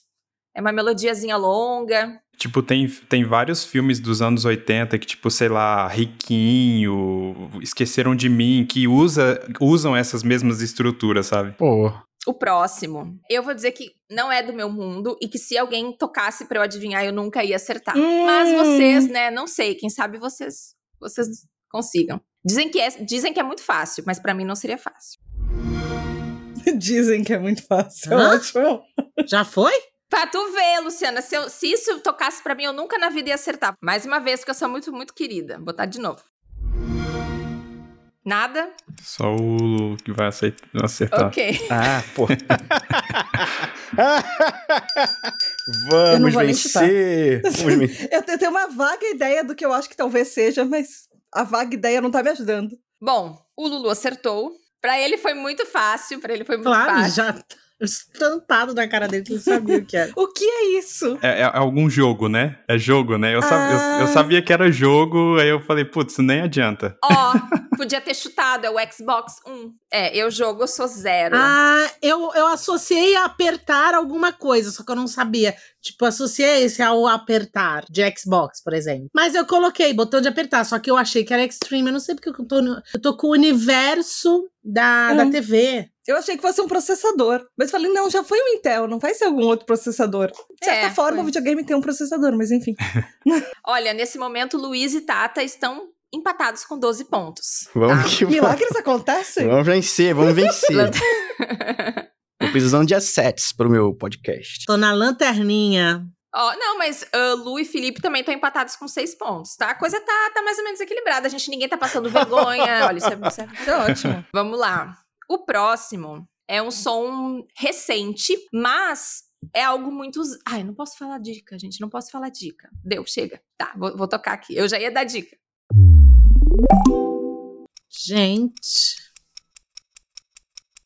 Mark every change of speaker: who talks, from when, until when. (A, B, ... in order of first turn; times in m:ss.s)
0:00.6-0:02.2 A
0:02.4-0:11.6 B
0:11.6-0:12.0 C
0:12.3-0:25.2 A
0:18.0-0:19.1 D
0:26.7-0:28.8 D
0:28.1-0:28.5 E
0:29.3-0:29.8 E
0:30.1-0:36.2 A
0:38.2-0:38.7 A
0:39.0-0:41.3 B
0:41.1-0:41.7 A
0:41.7-0:48.0 C
0:46.1-0:46.9 D
0:47.6-0:52.8 D
0:53.0-0:57.2 A
0:56.6-1:00.1 E
0:59.4-1:01.2 D
1:01.2-1:07.2 B
1:03.4-1:04.3 D
1:07.0-1:11.5 A
1:11.3-1:25.9 E
1:25.1-1:25.4 D
1:26.1-1:33.4 D
1:30.6-1:31.3 A
1:33.6-1:38.2 A
1:37.7-1:38.7 C
1:38.3-1:39.6 D
1:39.4-1:41.0 C
1:40.7-1:42.1 A
1:42.4-1:44.7 C
1:44.7-1:46.1 E
1:46.3-1:53.6 A
1:52.2-1:52.9 C
1:53.6-1:54.2 D
1:54.3-2:05.4 A
2:07.9-2:09.0 E